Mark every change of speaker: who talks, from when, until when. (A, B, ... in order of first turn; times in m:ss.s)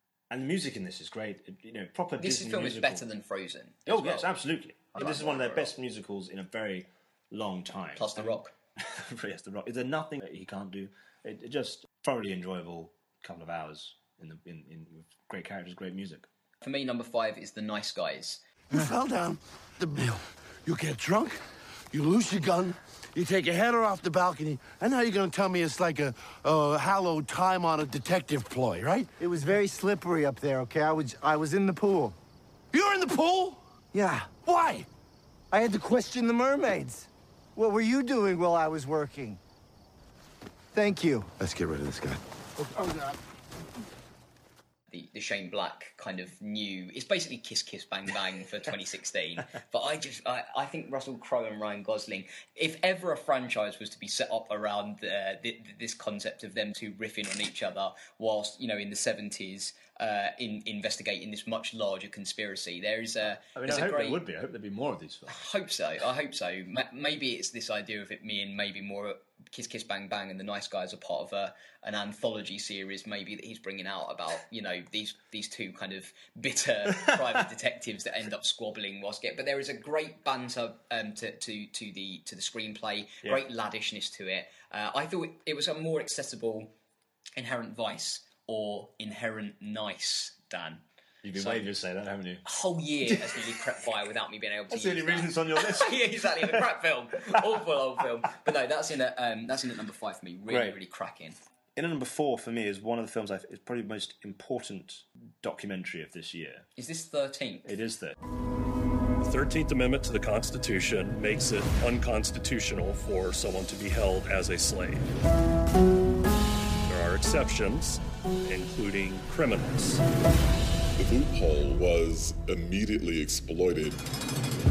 0:00.3-0:03.0 A
0:02.2-0:04.3 B
0:03.9-0:16.3 A
0:04.9-0:05.8 B
0:08.0-0:08.5 B
0:16.6-0:18.4 B
0:18.7-0:29.1 C
0:29.2-0:32.2 D
0:32.7-0:33.6 C
0:33.9-0:34.5 D
0:34.4-0:34.8 C
0:35.5-0:39.4 D
0:40.7-0:41.4 D
0:41.4-0:43.1 C
0:44.9-1:04.2 B
1:03.6-1:05.4 A
1:05.3-1:26.7 B
1:27.4-1:30.8 B
1:31.2-1:32.4 A
1:31.4-1:31.7 B
1:32.4-1:41.4 B
1:33.0-1:33.6 A
1:34.7-1:36.7 A
1:37.4-1:37.6 A
1:40.5-1:40.8 A
1:41.8-1:46.7 A
1:46.8-1:47.7 B
1:47.7-1:48.2 A
1:49.2-1:55.1 E
1:56.9-2:00.0 E
2:01.0-2:04.0 F